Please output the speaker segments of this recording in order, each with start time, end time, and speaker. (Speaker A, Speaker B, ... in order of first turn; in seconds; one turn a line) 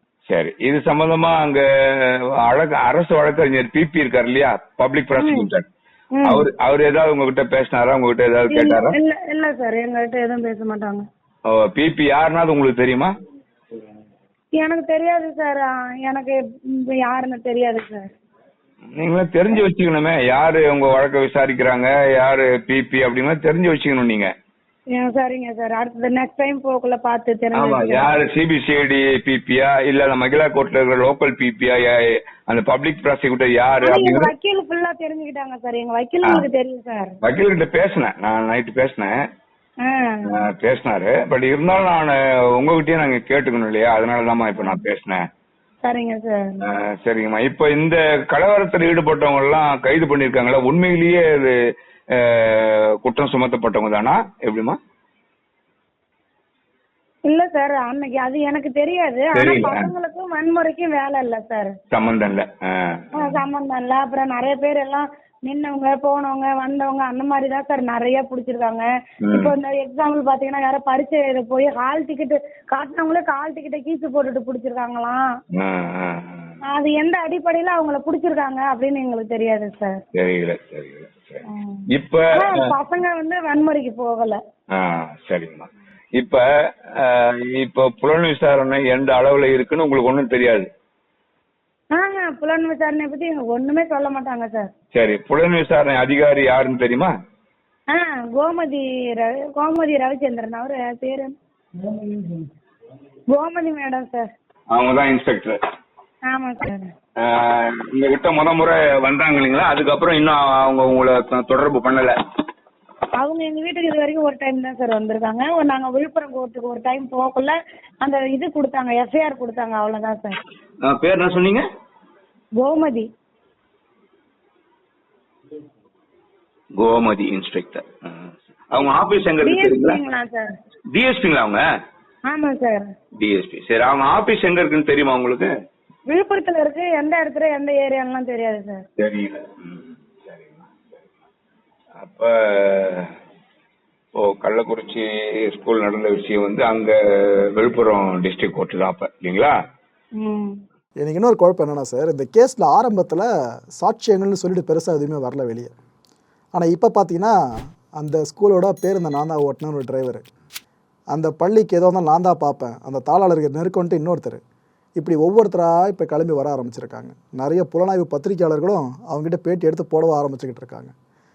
Speaker A: 0.3-5.6
Speaker B: 5.2-5.5
Speaker B: 6.1-6.5
Speaker A: 6.2-8.9
Speaker B: 8.5-11.1
Speaker A: 11.4-13.1
Speaker B: 14.5-18.1
Speaker A: 18.9-24.3
Speaker B: 24.9-28.1
Speaker A: 27.5-34.3
Speaker B: 33.8-37.2
Speaker A: 37.2-39.2
Speaker B: 39.8-40.4
Speaker A: 40.2-45.2
Speaker B: 44.6-44.8
Speaker B: 45.8-46.6
Speaker A: 46.6-51.6
Speaker A: 52.1-54.8
Speaker B: 57.2-61.8
Speaker A: 59.3-59.9
Speaker A: 61.9-63.4
Speaker B: 63.1-75.3
Speaker A: 69.2-69.5
Speaker A: 75.5-76.6
Speaker B: 76.7-80.0
Speaker A: 80.1-82.7
Speaker B: 81.5-84.4
Speaker A: 84.7-90.7
Speaker B: 91.9-94.7
Speaker A: 94.9-97.1
Speaker B: 97.9-101.3
Speaker B: 103.3-104.3
Speaker A: 104.7-105.6
Speaker B: 106.2-106.9
Speaker A: 107.2-112.1
Speaker B: 113.2-120.4
Speaker A: 120.8-121.6
Speaker B: 122.6-123.1
Speaker A: 126.8-130.0
Speaker B: 129.4-130.6
Speaker A: 130.9-131.6
Speaker B: 132.3-132.9
Speaker A: 133.2-135.5
Speaker B: 136.1-138.8
Speaker A: 139.0-140.6
Speaker A: 142.0-143.1
Speaker A: 144.2-149.6
Speaker B: 150.2-150.6
Speaker C: 151.0-155.7
Speaker C: 156.5-160.2
Speaker C: 161.1-164.4
Speaker C: 165.0-170.9